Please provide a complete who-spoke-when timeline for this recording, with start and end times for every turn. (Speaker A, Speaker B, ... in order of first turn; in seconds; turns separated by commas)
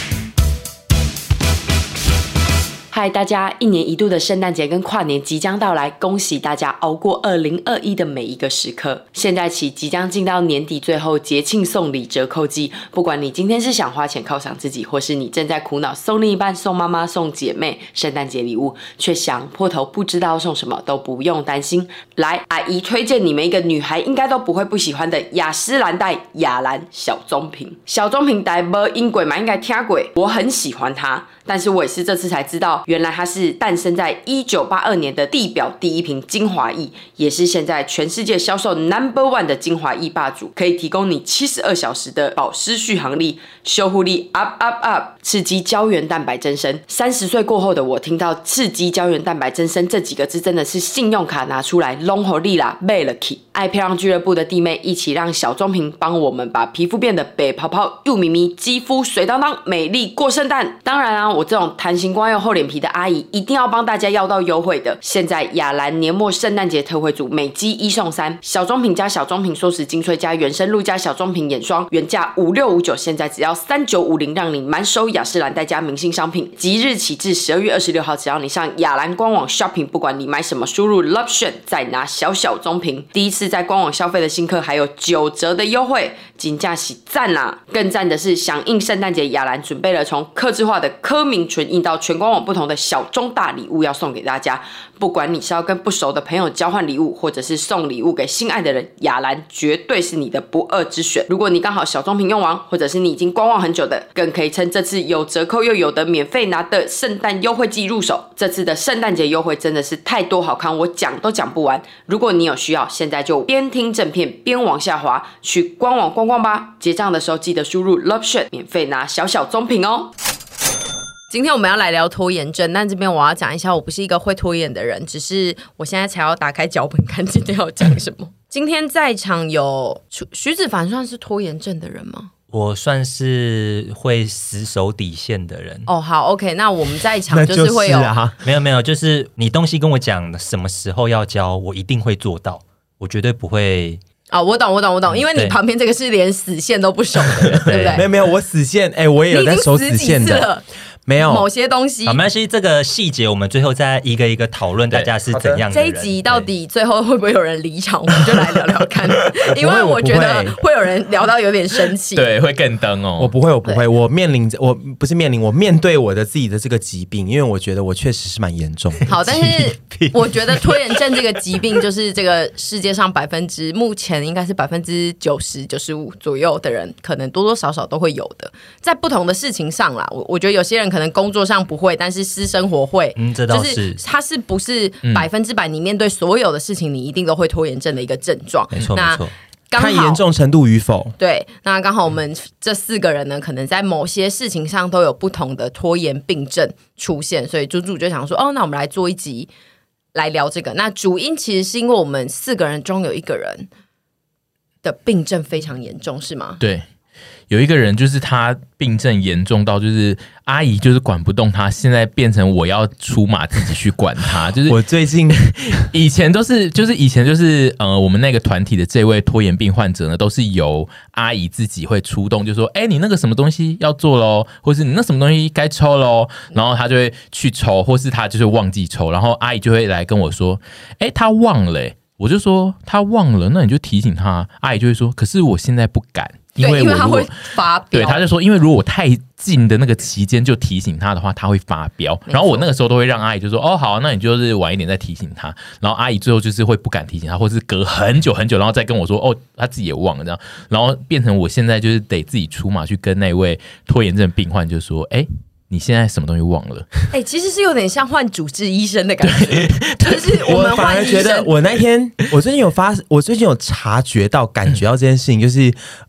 Speaker A: 2.9-120.1, Speaker B: 121.3-132.3, Speaker C: 132.5-135.9, Speaker B: 135.9-138.1, Speaker D: 137.3-138.4, Speaker C: 138.4-144.0, Speaker B: 144.3-148.1, Speaker C: 145.1-145.6, Speaker C: 147.7-148.0, Speaker D: 147.8-150.5, Speaker B: 149.3-150.6, Speaker D: 151.1-151.5, Speaker B: 151.2-152.2, Speaker C: 152.1-156.5, Speaker D: 155.3-155.7, Speaker B: 155.7-162.3, Speaker D: 159.4-160.6, Speaker E: 162.2-163.3, Speaker D: 163.2-169.4, Speaker B: 169.1-190.2, Speaker C: 169.3-170.2, Speaker C: 183.2-184.0, Speaker C: 188.7-189.3, Speaker D: 189.8-191.2, Speaker B: 191.2-199.5, Speaker B: 200.1-203.7, Speaker B: 204.8-206.6, Speaker E: 206.6-206.9, Speaker E: 207.5-237.4, Speaker D: 214.7-215.9, Speaker B: 236.6-238.2, Speaker E: 237.9-257.0, Speaker B: 242.3-242.7, Speaker B: 257.1-261.5, Speaker E: 259.2-260.4, Speaker D: 260.5-265.8